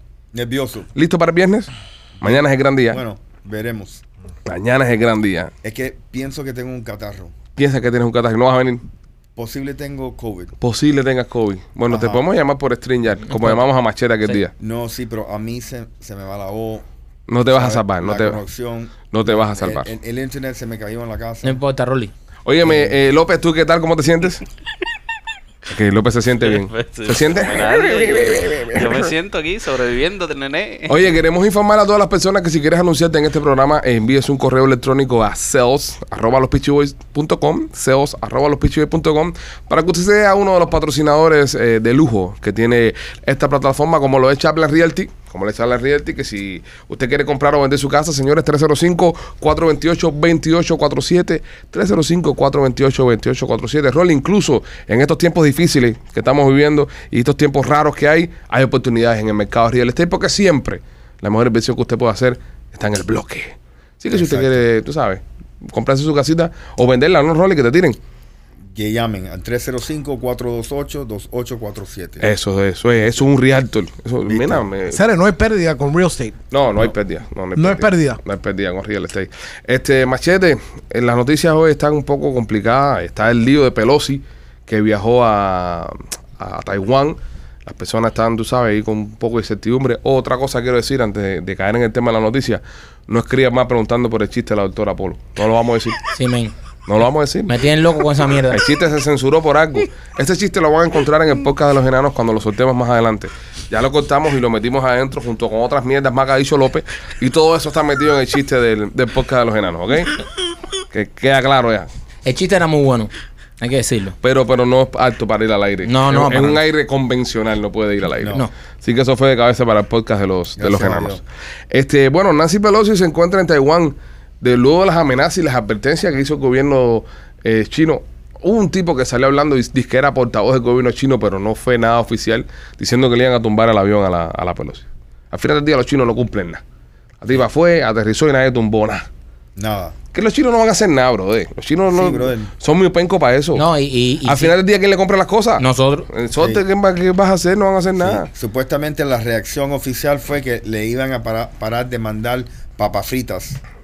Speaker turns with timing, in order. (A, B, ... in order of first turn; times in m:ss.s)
0:00.3-0:00.9 A
0:01.0-0:01.7 B
0:02.2-0:04.0 A
0:02.2-0:03.0 B
0:04.5-0:05.5 B
0:05.6-0:07.4 A
0:07.6-0:08.8 B
0:09.4-0:10.5 A
0:10.6-0:14.5 B
0:11.9-0:12.2 A
0:13.3-0:13.6 C
0:14.6-0:16.8 A
0:17.3-0:18.4 B
0:17.5-0:21.6 A
0:19.1-0:19.9 B
0:21.4-0:22.1 C
0:22.4-0:24.4 B
0:22.6-0:22.9 A
0:25.7-0:29.1 B
0:26.4-0:31.0 D
0:30.9-1:08.0 B
1:04.1-1:04.6 A
1:08.7-1:12.3 A
1:12.2-1:15.0 B
1:14.2-1:14.7 A
1:14.9-1:16.4 E
1:16.5-1:36.0 B
1:17.6-1:18.2 E
1:36.1-1:36.5 C
1:36.9-1:37.5 B
1:37.5-1:38.6 C
1:38.5-1:50.2 B
1:50.9-1:51.9 B
1:52.3-1:54.2 C
1:54.2-2:16.6 B
1:55.9-1:56.6 C
1:58.2-1:58.5 A
2:00.6-2:01.2 A
2:17.2-2:19.1 B
2:19.6-2:20.0 A
2:20.1-2:23.6 B
2:21.9-2:22.5 A
2:23.6-2:24.6 C
2:24.2-2:28.3 B
2:25.6-2:26.1 C
2:26.4-2:26.6 A
2:28.0-2:33.6 A